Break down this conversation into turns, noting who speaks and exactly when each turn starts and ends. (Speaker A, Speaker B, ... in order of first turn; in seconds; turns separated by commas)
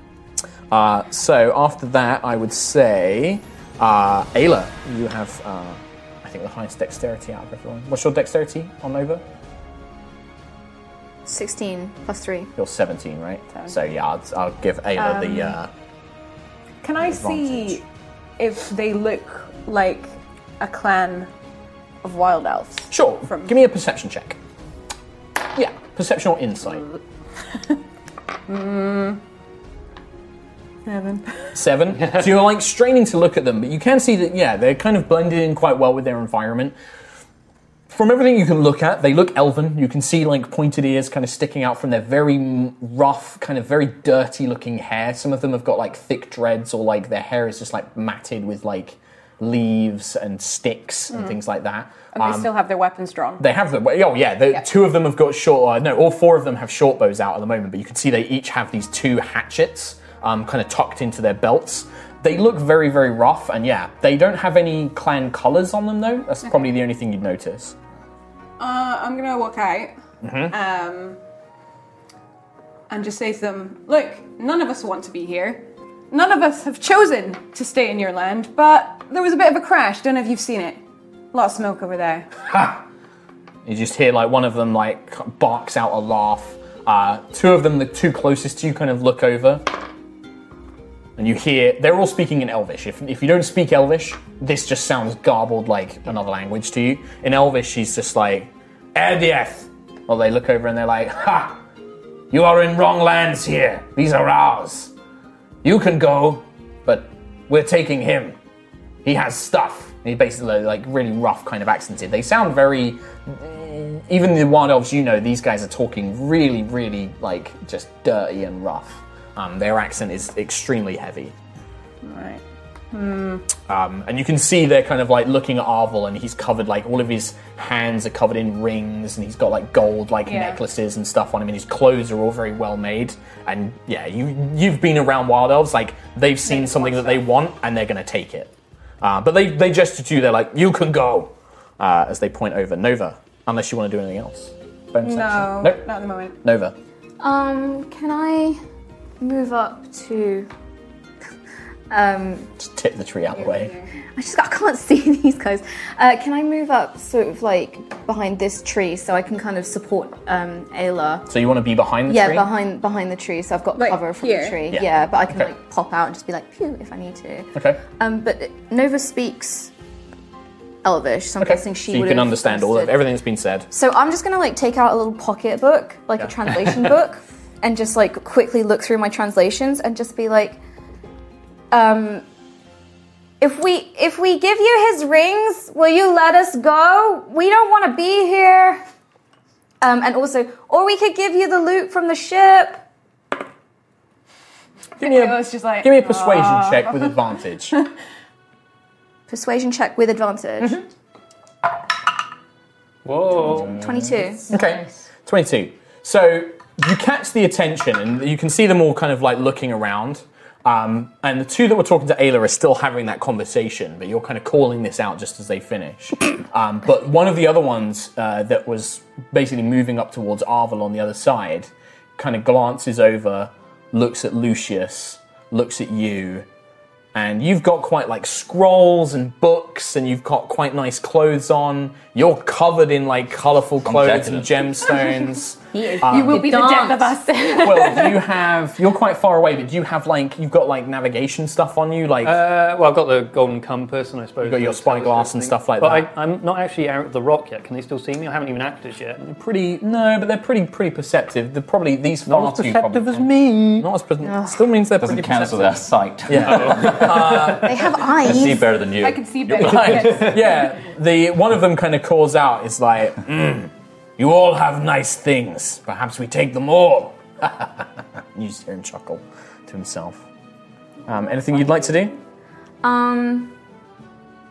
Speaker A: 0.7-9.2, Speaker B: 11.2-12.5, Speaker A: 12.6-15.7, Speaker C: 15.0-15.6, Speaker C: 16.8-17.9, Speaker D: 17.1-17.7, Speaker C: 18.4-21.3, Speaker C: 22.0-23.5, Speaker A: 22.9-24.4, Speaker A: 25.5-26.9, Speaker C: 28.5-29.2, Speaker C: 30.9-31.5, Speaker A: 31.5-36.8, Speaker A: 37.9-52.5, Speaker C: 51.1-51.4, Speaker C: 52.1-53.4, Speaker A: 53.4-67.7, Speaker C: 68.6-69.9, Speaker A: 70.2-70.5, Speaker C: 70.5-71.2, Speaker C: 72.9-80.8, Speaker C: 81.3-82.3, Speaker A: 82.4-82.8, Speaker A: 83.6-89.7, Speaker A: 91.2-101.6, Speaker A: 102.3-104.9, Speaker A: 105.6-108.4, Speaker A: 109.0-121.3, Speaker C: 122.0-123.4, Speaker A: 123.6-145.8, Speaker C: 130.2-130.6, Speaker C: 136.5-137.2, Speaker C: 145.0-146.4, Speaker A: 146.4-146.7, Speaker B: 147.2-148.6, Speaker B: 149.2-150.5, Speaker B: 151.9-152.5, Speaker A: 152.6-153.7, Speaker C: 153.3-153.9, Speaker B: 154.1-161.3, Speaker A: 161.3-162.5, Speaker B: 162.1-169.7, Speaker C: 163.8-164.6, Speaker A: 164.7-165.5, Speaker A: 167.5-167.8, Speaker B: 170.8-172.9, Speaker A: 171.4-173.7, Speaker B: 173.7-180.6, Speaker B: 181.7-182.2, Speaker B: 183.4-188.8, Speaker B: 189.8-192.8, Speaker A: 195.0-197.8, Speaker C: 195.0-197.2, Speaker B: 199.3-200.8, Speaker E: 203.0-203.8, Speaker B: 203.7-204.5, Speaker A: 204.5-226.4, Speaker A: 227.1-236.6, Speaker D: 233.8-234.6, Speaker B: 235.7-238.0, Speaker C: 236.0-238.1, Speaker A: 237.6-242.4, Speaker E: 242.2-249.2, Speaker A: 244.4-246.1, Speaker A: 249.2-257.8, Speaker E: 252.2-253.9, Speaker B: 254.2-254.6, Speaker D: 255.0-260.4, Speaker B: 257.6-258.8, Speaker C: 258.9-260.6, Speaker A: 259.6-270.2, Speaker A: 271.1-272.1, Speaker B: 272.8-273.5